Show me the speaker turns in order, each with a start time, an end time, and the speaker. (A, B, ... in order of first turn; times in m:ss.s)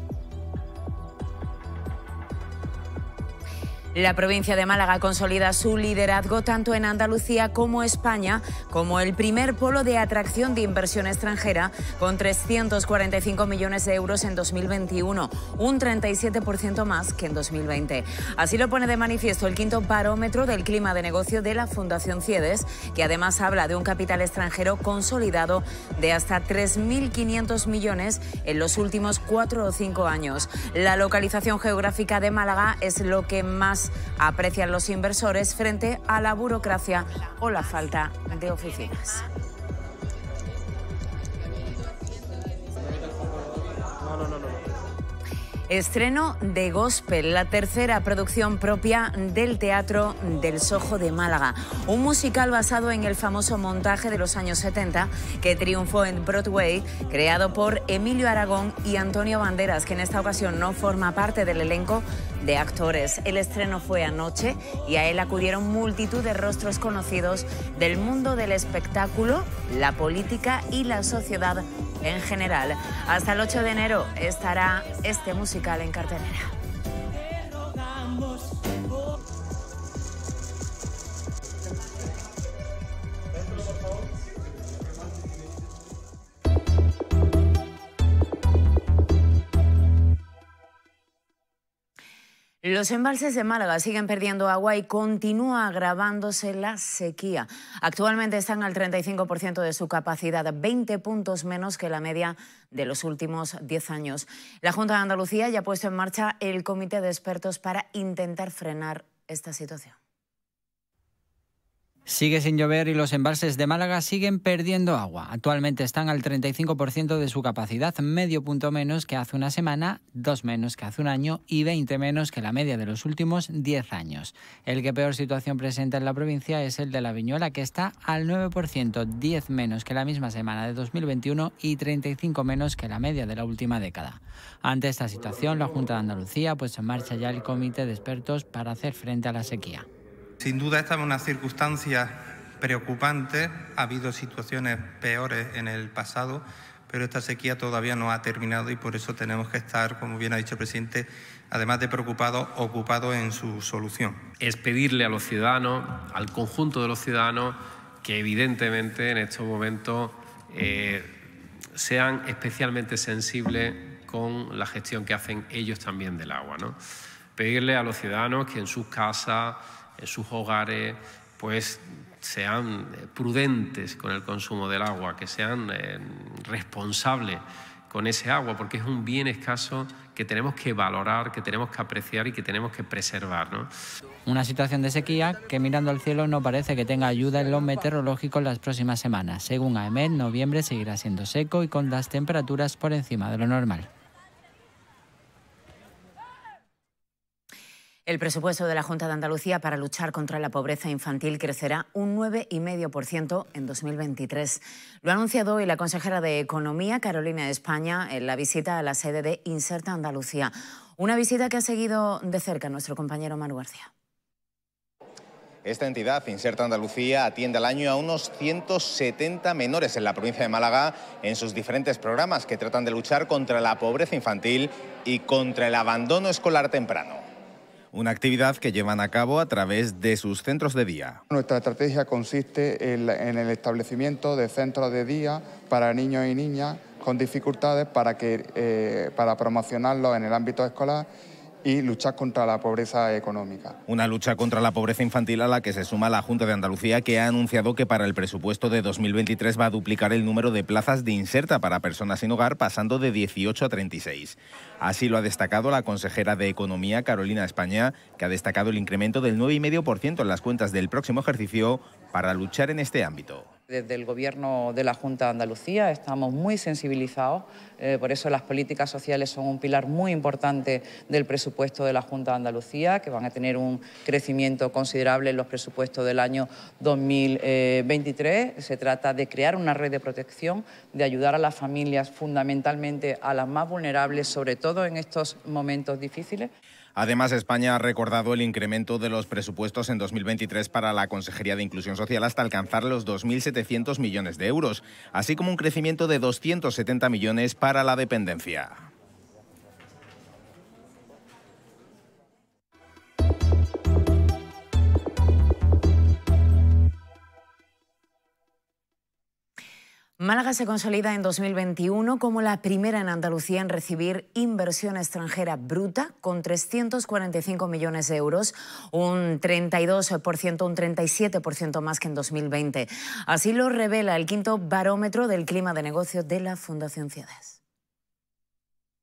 0:03.9-0:39.2 A
0:45.7-1:16.5 A
1:32.6-1:50.0 A
1:52.1-2:19.9 B
2:20.4-2:34.2 C
2:34.4-2:41.2 D
2:41.8-2:46.8 D
2:47.4-3:03.7 D
3:04.3-3:13.9 B
3:18.1-3:33.9 A
3:35.6-3:47.2 E
3:47.9-3:51.2 E
3:51.3-4:01.1 F
4:01.6-4:03.8 F
4:03.9-4:23.5 E
4:23.7-4:46.5 G
4:47.0-4:58.9 E
5:10.2-5:27.6 A